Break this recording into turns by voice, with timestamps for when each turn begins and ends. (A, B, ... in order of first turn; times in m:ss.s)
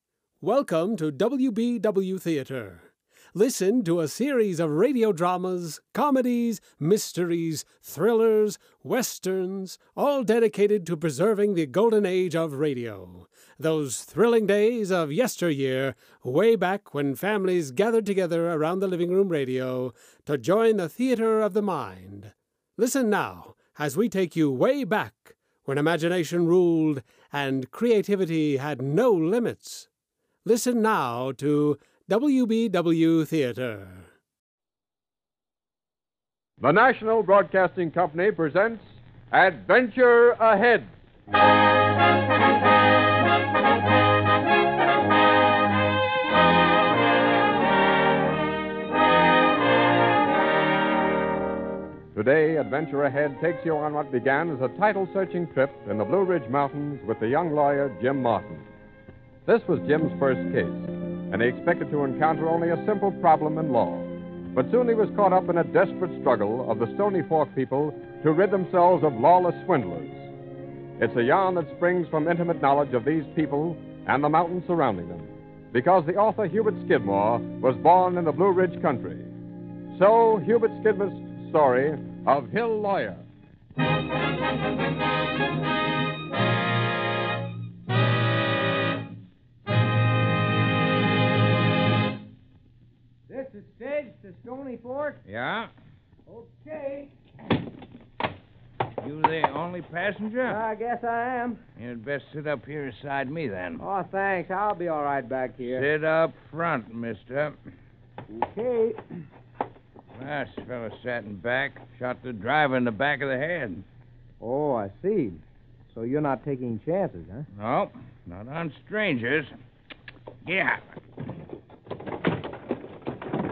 0:00.4-0:29.9 A
0:30.4-0:34.0 A
0:36.6-0:40.9 B
0:52.2-0:58.7 B
0:59.4-1:10.3 B
1:11.0-1:19.3 B
1:19.9-1:23.2 B
1:33.3-1:35.2 C
1:35.3-1:35.7 D
1:36.3-1:37.1 C
1:39.0-1:40.6 D
1:40.4-1:41.6 C
1:41.8-1:43.8 D
1:43.8-1:45.9 C
1:45.7-1:47.6 D
1:48.3-1:49.0 C
1:50.1-1:53.8 D
1:54.4-1:57.5 C
1:57.6-1:59.5 D
2:00.4-2:00.8 D